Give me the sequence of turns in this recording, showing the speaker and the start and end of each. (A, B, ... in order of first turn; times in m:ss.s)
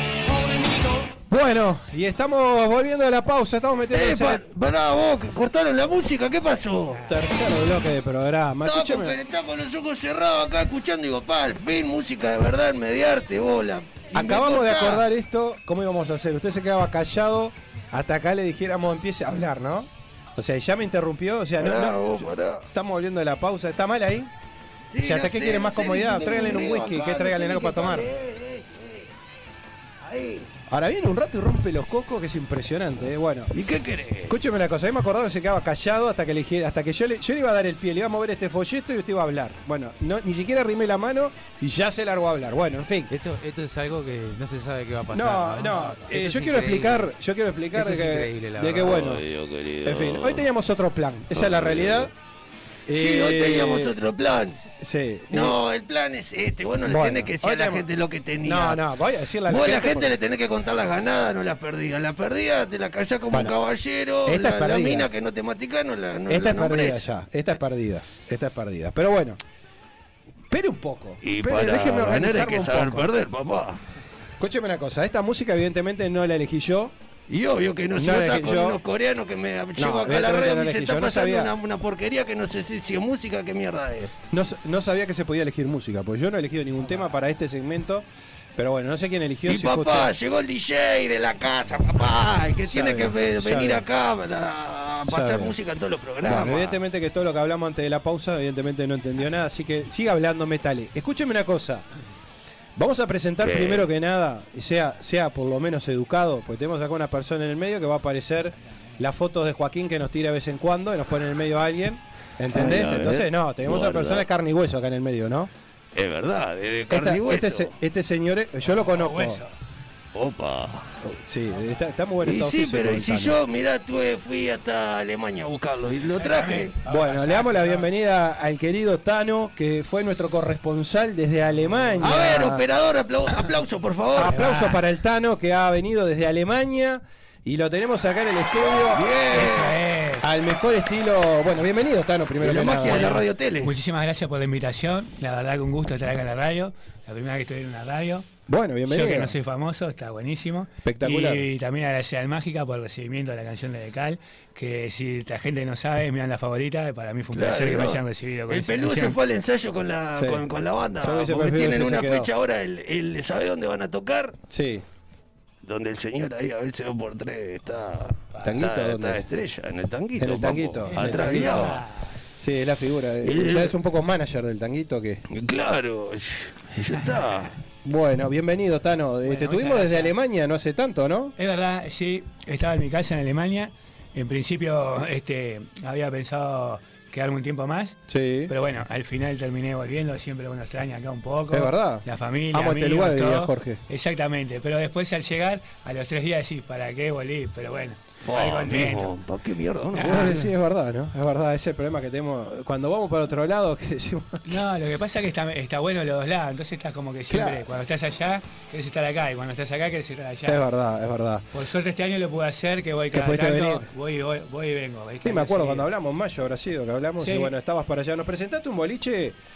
0:00.3-0:01.1 A
0:01.2-0:04.4 B
0:03.9-0:07.0 A
0:07.0-0:09.2 B
0:08.6-0:15.0 A
0:14.1-0:24.3 B
0:21.6-0:22.7 A
0:24.9-0:29.1 A
0:25.0-0:28.1 B
0:30.0-0:30.5 A
0:30.7-0:33.5 B
0:33.5-0:34.4 A
0:34.3-0:43.1 B
0:43.1-0:47.1 C
0:45.1-0:49.2 B
0:47.7-0:49.1 C
0:48.8-0:50.4 A
0:49.8-0:52.1 B
0:51.3-0:52.1 A
0:52.9-0:53.9 B
0:52.9-0:54.6 A
0:54.8-0:55.6 B
0:55.3-0:58.8 A
0:56.8-0:57.9 B
0:58.4-1:00.1 B
0:59.5-1:07.1 A
1:04.3-1:05.1 B
1:06.3-1:09.4 B
1:10.5-1:13.1 B
1:11.2-1:13.8 A
1:14.4-1:16.9 B
1:17.3-1:24.2 A
1:18.0-1:18.8 B
1:19.8-1:21.5 B
1:24.3-1:30.1 B
1:29.5-1:36.8 A
1:32.7-1:33.8 B
1:35.1-1:35.6 B
1:36.2-1:41.8 B
1:42.8-1:55.5 B
1:43.4-1:43.8 A
1:52.5-1:54.2 A
1:56.0-1:57.7 A
1:56.9-1:59.4 B
1:58.8-1:59.5 D
2:00.1-2:00.9 A
2:01.0-2:03.4 B
2:02.2-2:06.7 A
2:06.1-2:07.9 D
2:06.8-2:12.6 B
2:12.0-2:14.4 A
2:14.1-2:19.1 B
2:14.3-2:14.8 D
2:18.8-2:19.8 A
2:19.3-2:20.3 D
2:20.2-2:23.2 B
2:22.4-2:23.7 A
2:22.8-2:28.3 D
2:28.5-2:29.4 B
2:28.9-2:39.2 D
2:30.8-2:31.5 B
2:37.3-2:44.4 A
2:40.2-2:40.4 B
2:41.0-2:42.3 B
2:44.5-2:44.8 B
2:45.6-2:51.8 A
2:48.4-2:49.2 B
2:50.2-2:51.8 B
2:50.9-2:52.1 D
2:52.4-2:55.2 B
2:53.2-2:53.8 A
2:55.3-2:57.5 A
2:56.9-2:57.6 D
2:57.8-3:01.4 B
2:59.3-3:00.1 D
3:01.4-3:19.1 D
3:08.1-3:08.5 B
3:11.5-3:13.8 B
3:18.2-3:20.4 A
3:19.9-3:20.5 D
3:20.0-3:25.0 B
3:24.5-3:30.6 D
3:27.3-3:27.7 B
3:30.4-3:31.5 B
3:31.5-3:35.9 D
3:33.1-3:33.9 B
3:35.2-3:39.4 B
3:37.2-3:37.5 D